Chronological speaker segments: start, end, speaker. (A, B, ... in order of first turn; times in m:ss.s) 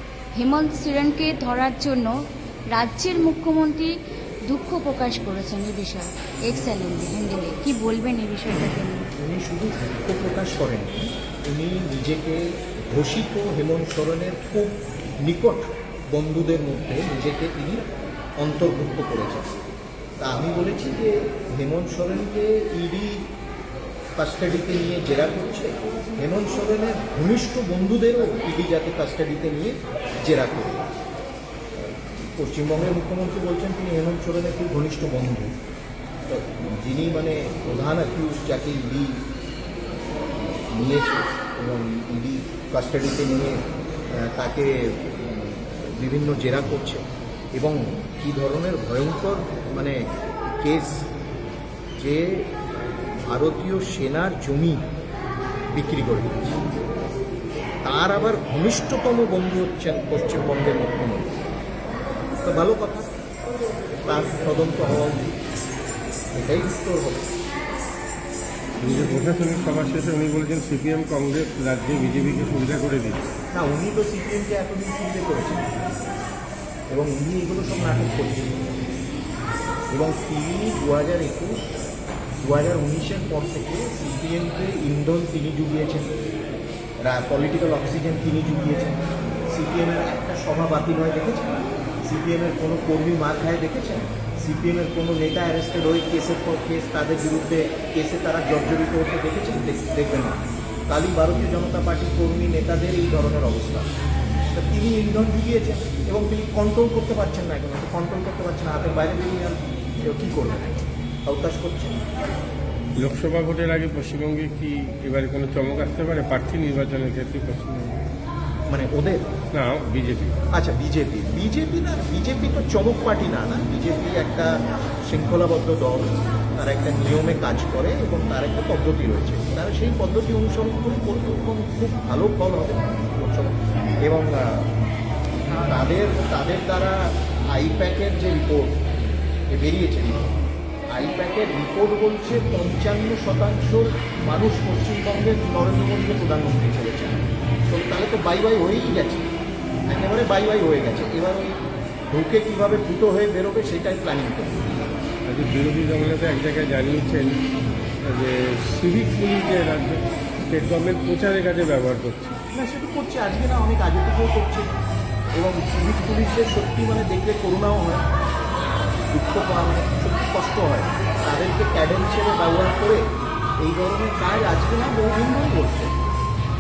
0:00.4-0:02.1 A
0:02.7-0:03.9 A
0:04.5-0:09.1 A
0:09.2-0:17.8 B
0:18.4-0:19.6 B
0:20.2-0:23.3 B
0:24.2-0:30.8 B
0:31.8-0:35.5 B
0:36.3-0:39.2 B
0:40.4-0:47.0 B
0:47.6-0:51.1 B
0:52.0-0:52.5 B
0:53.3-0:54.8 B
0:55.7-0:56.5 B
0:57.8-1:01.3 B
1:02.4-1:03.1 B
1:04.1-1:05.4 B
1:06.3-1:07.3 B
1:08.8-1:13.3 C
1:13.5-1:15.7 B
1:16.9-1:18.6 B
1:19.9-1:21.6 B
1:22.4-1:26.1 B
1:27.0-1:52.0 B
1:53.0-1:58.0 C
1:58.7-1:59.3 B
1:59.5-2:00.4 C
2:00.5-2:14.7 B
2:15.6-2:18.8 B
2:19.5-2:20.3 B
2:20.9-2:29.3 B
2:29.9-2:31.6 B
2:32.1-2:34.7 B
2:35.3-2:37.4 C
2:38.0-2:42.4 C
2:42.5-2:44.7 B
2:45.4-2:48.0 B
2:49.1-2:53.1 B
2:53.6-2:56.0 B